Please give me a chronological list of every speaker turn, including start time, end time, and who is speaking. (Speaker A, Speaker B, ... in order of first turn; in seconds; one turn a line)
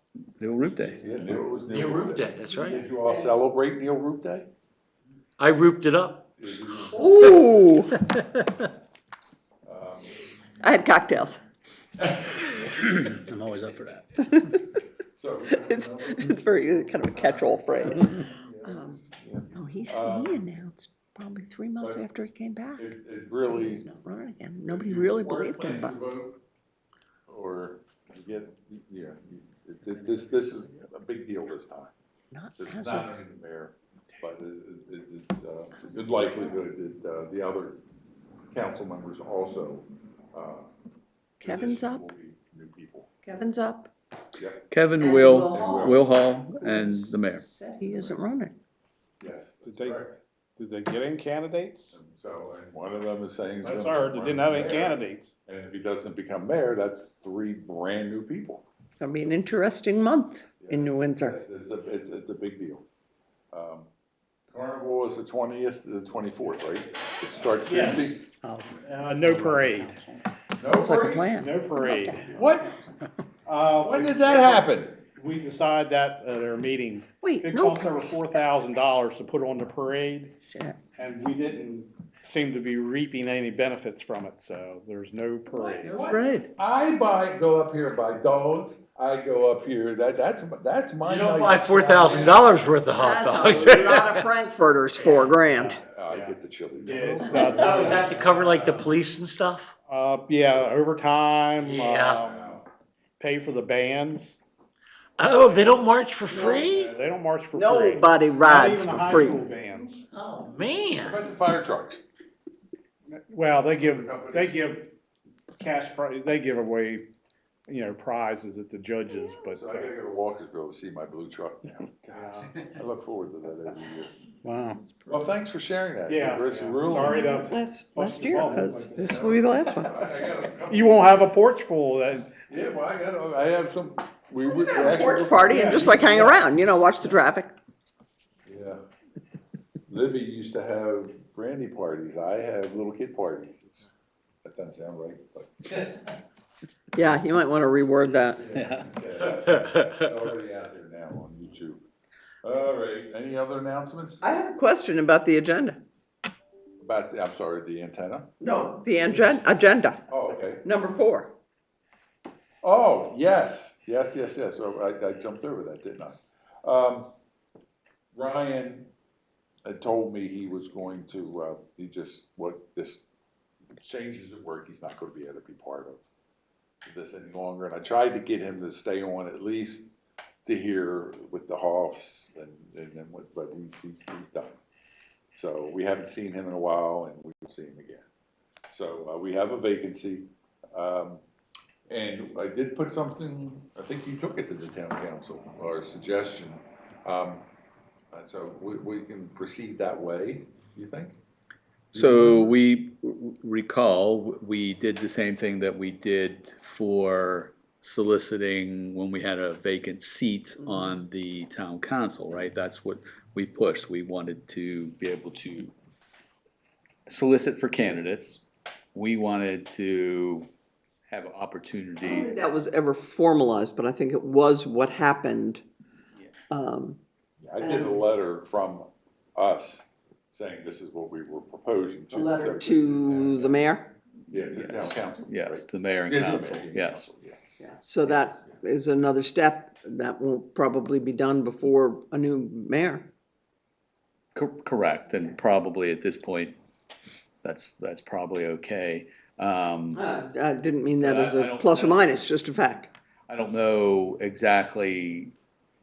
Speaker A: 0.4-1.3
Speaker B: 1.0-4.5
Speaker C: 1.6-2.9
Speaker D: 2.5-3.3
Speaker C: 5.4-6.3
Speaker B: 6.4-7.5
Speaker D: 6.9-7.9
Speaker C: 8.1-8.5
Speaker B: 9.7-10.2
Speaker D: 10.6-11.4
Speaker B: 12.2-12.7
Speaker C: 12.8-14.0
Speaker D: 14.2-14.6
Speaker B: 15.2-20.4
Speaker D: 15.5-19.0
Speaker D: 19.5-22.9
Speaker B: 21.8-22.1
Speaker B: 22.8-23.9
Speaker D: 23.5-26.0
Speaker B: 24.7-26.4
Speaker B: 27.3-31.9
Speaker D: 32.3-33.2
Speaker B: 32.6-37.8
Speaker D: 35.8-36.3
Speaker B: 38.5-40.7
Speaker D: 41.4-42.0
Speaker B: 41.4-43.1
Speaker D: 43.2-43.9
Speaker B: 44.4-44.6
Speaker A: 44.7-47.5
Speaker D: 45.0-46.1
Speaker B: 45.5-46.0
Speaker D: 46.6-48.5
Speaker B: 49.2-50.2
Speaker E: 49.7-50.0
Speaker E: 50.6-52.0
Speaker B: 51.9-58.6
Speaker E: 53.6-55.3
Speaker D: 59.0-61.4
Speaker B: 60.6-62.9
Speaker B: 63.5-63.9
Speaker B: 64.5-68.2
Speaker E: 67.7-68.2
Speaker C: 68.4-70.2
Speaker E: 68.8-70.0
Speaker B: 70.6-71.3
Speaker D: 70.7-72.3
Speaker E: 71.3-72.3
Speaker B: 72.3-72.8
Speaker E: 73.5-74.6
Speaker B: 73.8-75.0
Speaker E: 75.2-80.4
Speaker D: 77.2-78.0
Speaker D: 80.5-80.8
Speaker E: 81.0-86.0
Speaker B: 85.6-92.8
Speaker A: 85.9-86.5
Speaker C: 91.0-94.3
Speaker D: 93.0-95.8
Speaker B: 93.4-93.8
Speaker E: 95.1-98.8
Speaker B: 95.6-97.8
Speaker D: 97.2-98.0
Speaker C: 97.5-99.7
Speaker E: 99.9-102.5
Speaker C: 101.6-102.2
Speaker B: 102.2-102.7
Speaker E: 103.2-104.4
Speaker C: 105.2-107.0
Speaker E: 106.3-110.1
Speaker D: 107.5-109.5
Speaker C: 110.3-111.2
Speaker B: 111.0-112.0
Speaker E: 113.3-114.9
Speaker B: 113.8-114.6
Speaker E: 115.5-117.1
Speaker E: 117.7-119.9
Speaker B: 119.5-124.1
Speaker E: 122.1-122.6
Speaker C: 124.5-124.8
Speaker B: 125.1-127.5
Speaker E: 126.1-129.7
Speaker D: 127.4-130.2
Speaker B: 129.2-131.3
Speaker E: 130.7-132.3
Speaker B: 132.4-136.4
Speaker D: 134.4-137.6
Speaker E: 135.5-136.2
Speaker B: 138.5-138.8
Speaker B: 139.9-143.9
Speaker B: 144.4-146.0
Speaker D: 146.9-148.4
Speaker B: 148.4-151.8
Speaker A: 148.6-148.9
Speaker B: 152.4-154.4
Speaker D: 154.2-155.8
Speaker B: 156.8-158.3
Speaker D: 158.4-160.1
Speaker B: 160.1-160.7
Speaker D: 160.6-161.4
Speaker B: 162.6-167.1
Speaker B: 168.1-168.9
Speaker B: 169.6-173.1
Speaker B: 173.8-176.1
Speaker B: 176.8-179.9
Speaker B: 180.4-184.6
Speaker B: 185.3-188.1
Speaker B: 188.7-191.2
Speaker B: 191.9-197.5
Speaker B: 198.1-201.2
Speaker A: 201.9-215.8
Speaker B: 201.9-202.6
Speaker D: 210.7-210.9
Speaker A: 217.1-220.5
Speaker A: 221.1-222.3
Speaker D: 222.0-225.6
Speaker D: 226.5-227.0
Speaker B: 227.4-233.7
Speaker D: 227.6-228.1
Speaker D: 232.1-233.9
Speaker B: 234.3-237.4
Speaker A: 234.5-237.1
Speaker D: 237.6-243.1
Speaker A: 244.3-246.6
Speaker A: 247.4-250.0
Speaker D: 249.9-252.9
Speaker A: 251.0-252.2
Speaker A: 253.3-255.3